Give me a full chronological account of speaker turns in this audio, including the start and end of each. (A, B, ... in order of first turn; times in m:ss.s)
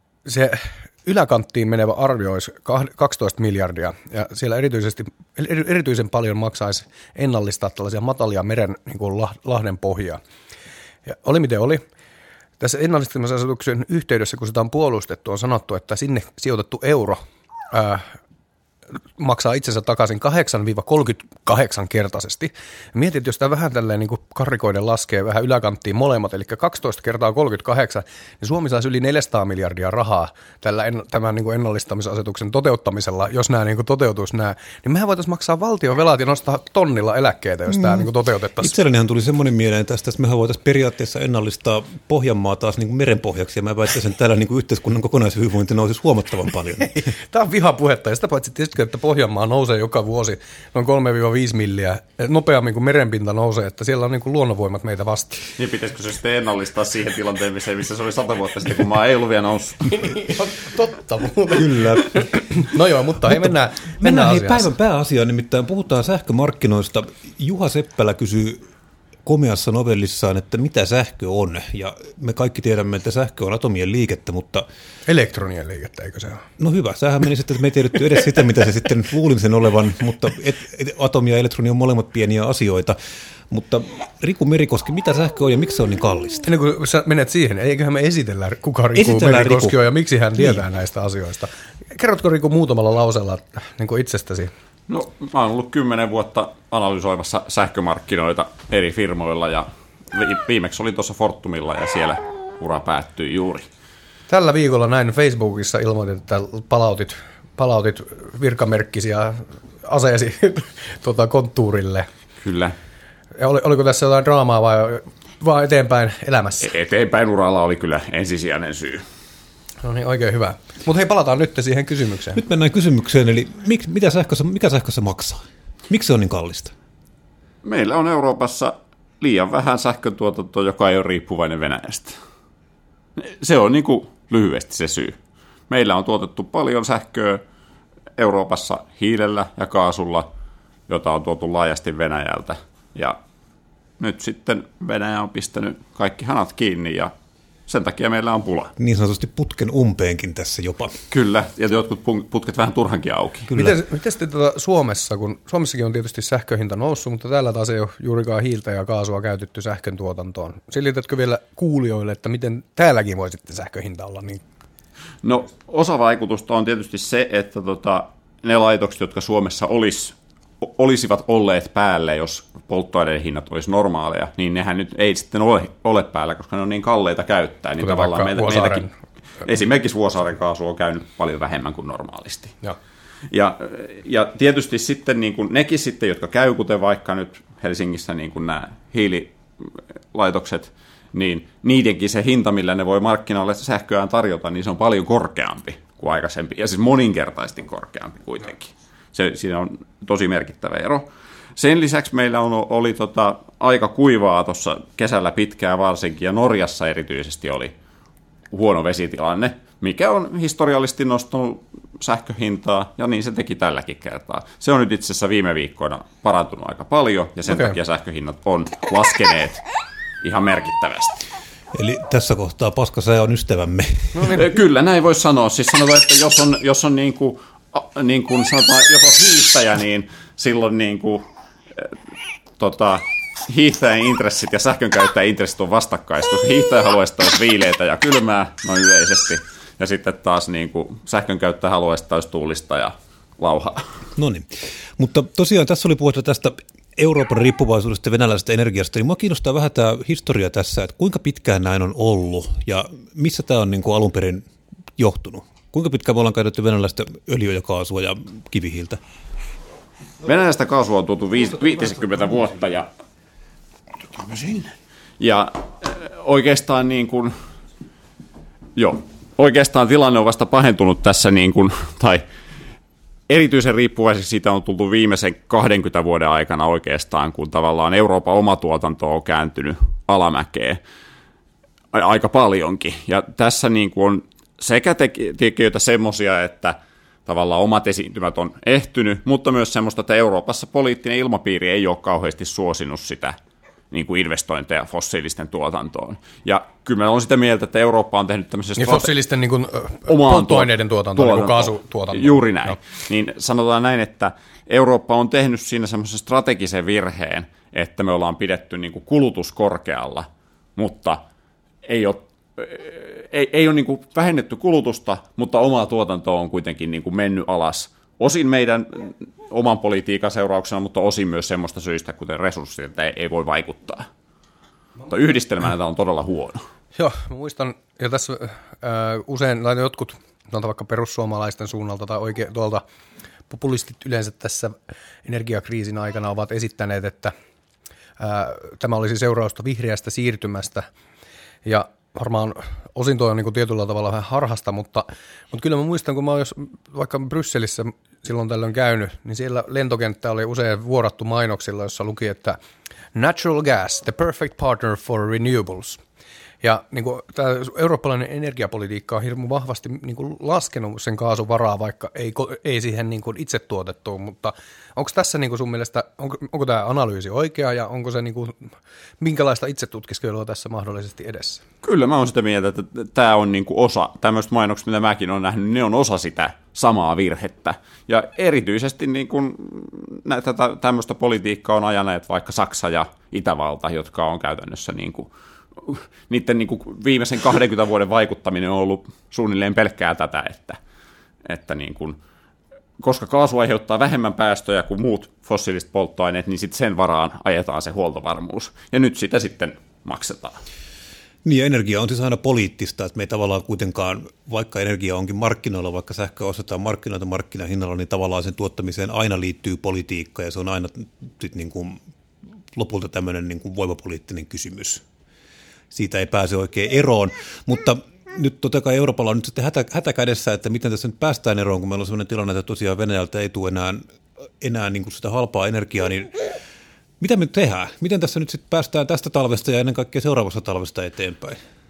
0:00.2-0:10.2 A
0:11.0-0:11.8 A
0:12.6-0:18.1 A
0:19.2-0:38.7 A
0:37.7-0:38.0 B
0:38.6-0:47.1 B
0:47.0-0:55.5 A
0:55.6-1:00.0 C
0:59.9-1:04.7 A
1:01.5-1:02.3 B
1:03.3-1:08.6 B
1:09.2-1:14.6 B
1:15.0-1:16.4 A
1:16.6-1:23.0 B
1:23.5-1:26.4 B
1:26.4-1:34.5 A
1:28.9-1:29.8 B
1:30.4-1:30.6 B
1:34.9-1:43.7 C
1:44.3-1:52.1 A
1:52.4-1:52.7 C
1:53.4-1:56.7 A
1:56.6-1:59.0 C
1:59.8-2:02.4 A
2:02.3-2:06.7 B
2:07.6-2:12.2 C
2:13.2-2:15.2 C
2:15.7-2:17.4 C
2:18.2-2:20.3 C
2:20.9-2:23.2 C
2:24.0-2:27.1 C
2:27.7-2:28.7 C
2:28.8-2:31.0 B
2:31.1-2:33.5 C
2:33.5-2:44.4 A
2:45.2-2:58.9 C
2:57.8-2:58.9 A
2:59.4-3:02.6 C
3:03.3-3:27.7 C
3:28.5-3:39.6 C
3:37.5-3:37.8 A
3:40.2-3:41.2 C
3:41.7-3:44.4 B
3:44.2-3:51.9 C
3:52.6-4:03.9 C
4:04.2-4:19.0 B
4:20.2-4:22.9 C
4:24.0-4:27.3 C
4:28.8-4:32.2 C
4:33.3-4:40.8 C
4:41.9-4:46.7 C
4:47.2-4:53.4 C
4:53.9-4:59.1 C
4:58.8-5:02.8 A
5:00.1-5:11.2 C
5:11.8-5:24.1 C
5:25.1-5:26.6 C
5:26.9-5:32.8 A
5:33.5-5:37.3 A
5:38.2-5:40.8 A
5:41.6-5:52.6 A
5:53.1-5:56.0 A
5:56.6-6:11.6 A
6:11.8-6:30.8 C
6:31.4-6:32.2 C
6:33.0-6:40.6 C
6:41.4-6:52.0 B
6:52.7-6:55.0 B
6:55.9-7:04.0 B
7:04.6-7:06.4 B
7:07.2-7:11.6 B